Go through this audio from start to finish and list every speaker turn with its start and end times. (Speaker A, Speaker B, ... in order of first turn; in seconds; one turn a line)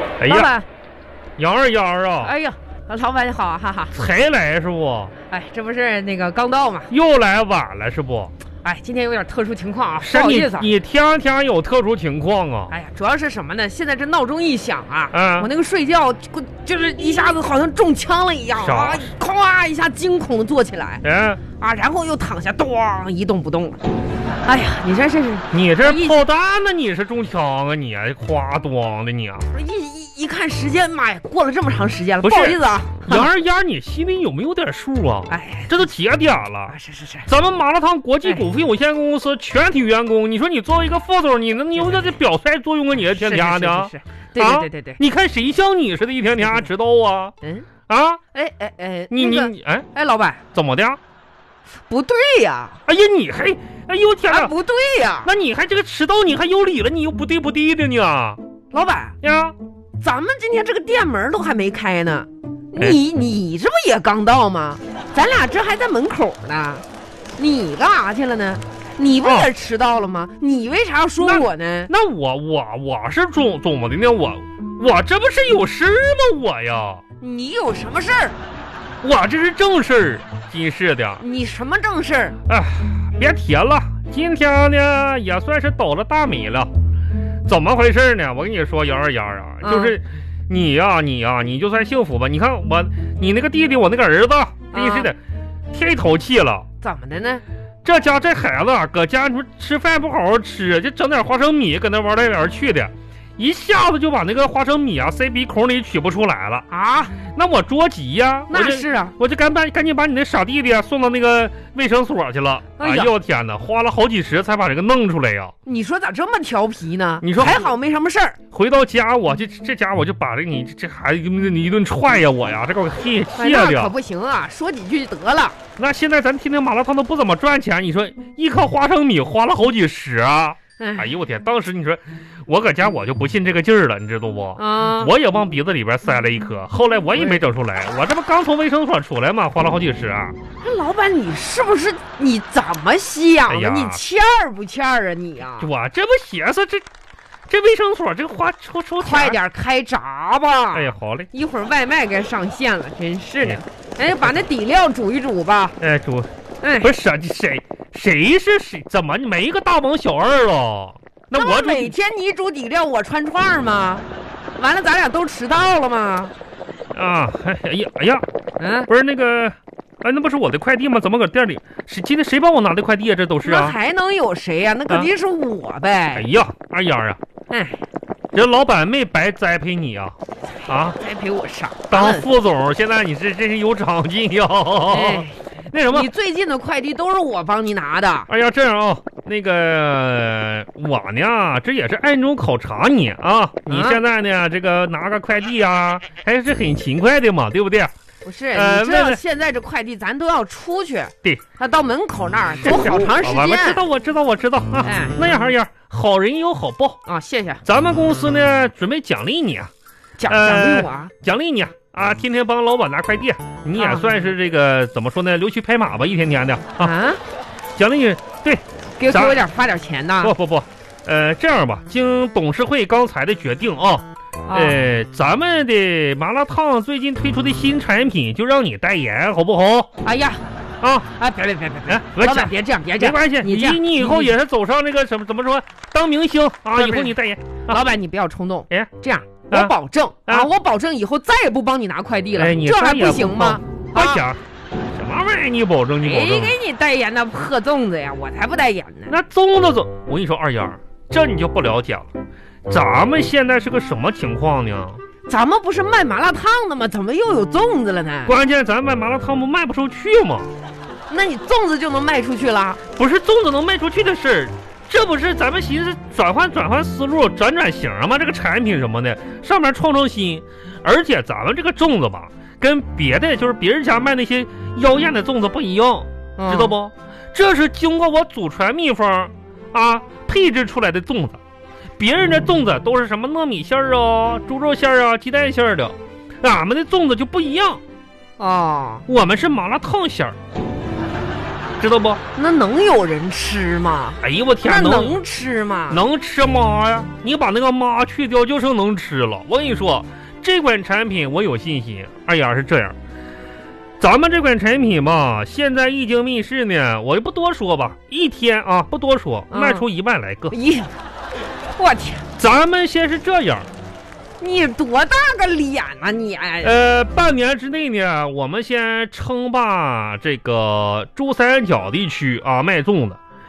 Speaker A: 0.2-0.5
Speaker B: 0.2-0.7
Speaker A: 1.4-2.3
Speaker B: 2.2-4.0
Speaker A: 3.9-5.1
Speaker B: 5.3-6.9
Speaker A: 6.9-8.3
Speaker B: 8.6-10.7
Speaker A: 10.0-12.7
Speaker B: 12.7-21.0
Speaker A: 15.1-15.5
Speaker A: 18.6-19.1
Speaker A: 21.0-21.4
Speaker B: 21.6-23.8
Speaker B: 24.4-26.2
Speaker A: 25.5-29.4
Speaker B: 29.5-33.3
Speaker A: 32.2-36.8
Speaker B: 35.3-35.7
Speaker B: 36.7-37.3
Speaker A: 37.3-47.3
Speaker B: 43.0-45.0
Speaker B: 47.4-47.7
Speaker A: 47.9-48.2
Speaker B: 48.3-50.4
Speaker A: 49.1-49.9
Speaker A: 50.5-51.0
Speaker B: 51.9-52.8
Speaker A: 52.9-54.5
Speaker B: 54.3-55.3
Speaker A: 55.2-58.4
Speaker B: 58.7-59.2
Speaker A: 59.2-59.5
Speaker B: 60.0-66.8
Speaker B: 67.4-71.9
Speaker A: 69.2-69.5
Speaker A: 71.2-77.0
Speaker B: 77.2-78.4
Speaker A: 79.0-81.2
Speaker B: 81.2-82.4
Speaker A: 82.5-86.7
Speaker A: 87.5-95.2
Speaker B: 89.6-90.0
Speaker B: 94.7-95.1
Speaker A: 95.7-96.7
Speaker B: 96.8-97.4
Speaker A: 97.8-106.7
Speaker B: 106.7-107.2
Speaker A: 107.3-115.5
Speaker B: 108.5-109.2
Speaker B: 112.8-113.1
Speaker B: 115.7-118.4
Speaker A: 117.2-117.6
Speaker A: 118.5-123.9
Speaker B: 123.4-125.6
Speaker A: 125.8-140.4
Speaker B: 130.8-131.1
Speaker B: 134.6-135.1
Speaker B: 140.6-145.7
Speaker A: 143.5-144.0
Speaker A: 145.6-146.8
Speaker A: 147.5-149.4
Speaker B: 149.0-155.8
Speaker A: 150.7-151.3
Speaker A: 153.4-154.4
Speaker A: 155.8-156.3
Speaker B: 156.6-156.9
Speaker A: 156.8-161.9
Speaker B: 161.3-164.1
Speaker B: 164.6-166.3
Speaker A: 166.9-168.3
Speaker B: 168.6-168.9
Speaker A: 168.9-173.8
Speaker B: 173.4-176.3
Speaker A: 176.2-177.2
Speaker B: 177.5-177.8
Speaker A: 178.3-180.2
Speaker A: 180.7-181.0
Speaker B: 180.9-182.3
Speaker A: 181.9-186.1
Speaker B: 184.9-185.4
Speaker B: 185.9-188.3
Speaker A: 188.3-197.9
Speaker B: 193.7-194.0
Speaker B: 198.2-203.8
Speaker A: 198.5-199.2
Speaker A: 202.6-207.0
Speaker B: 204.8-205.2
Speaker B: 207.1-207.6
Speaker A: 207.7-209.7
Speaker B: 210.2-211.1
Speaker A: 210.3-216.9
Speaker B: 213.8-214.1
Speaker B: 216.8-217.2
Speaker A: 217.8-219.4
Speaker B: 219.0-220.3
Speaker A: 220.2-229.9
Speaker B: 224.5-224.8
Speaker B: 230.0-230.4
Speaker A: 230.8-231.1
Speaker B: 231.2-234.3
Speaker A: 231.9-237.8
Speaker B: 236.8-237.2
Speaker B: 237.7-244.2
Speaker A: 242.3-244.4
Speaker A: 244.9-246.5
Speaker B: 246.0-249.2
Speaker A: 249.1-252.1
Speaker A: 252.7-255.0
Speaker B: 255.3-258.4
Speaker A: 258.3-260.5
Speaker B: 261.1-262.8
Speaker A: 263.0-281.4
Speaker B: 276.4-276.8
Speaker A: 282.0-287.8
Speaker B: 288.4-289.0
Speaker A: 289.1-290.4
Speaker A: 291.8-292.2
Speaker B: 292.4-296.0
Speaker A: 294.2-295.2
Speaker A: 295.9-303.0
Speaker A: 304.0-310.6
Speaker B: 309.5-309.9
Speaker B: 310.5-310.9
Speaker B: 311.8-312.3
Speaker A: 312.4-313.7
Speaker B: 314.4-316.8
Speaker A: 316.6-323.2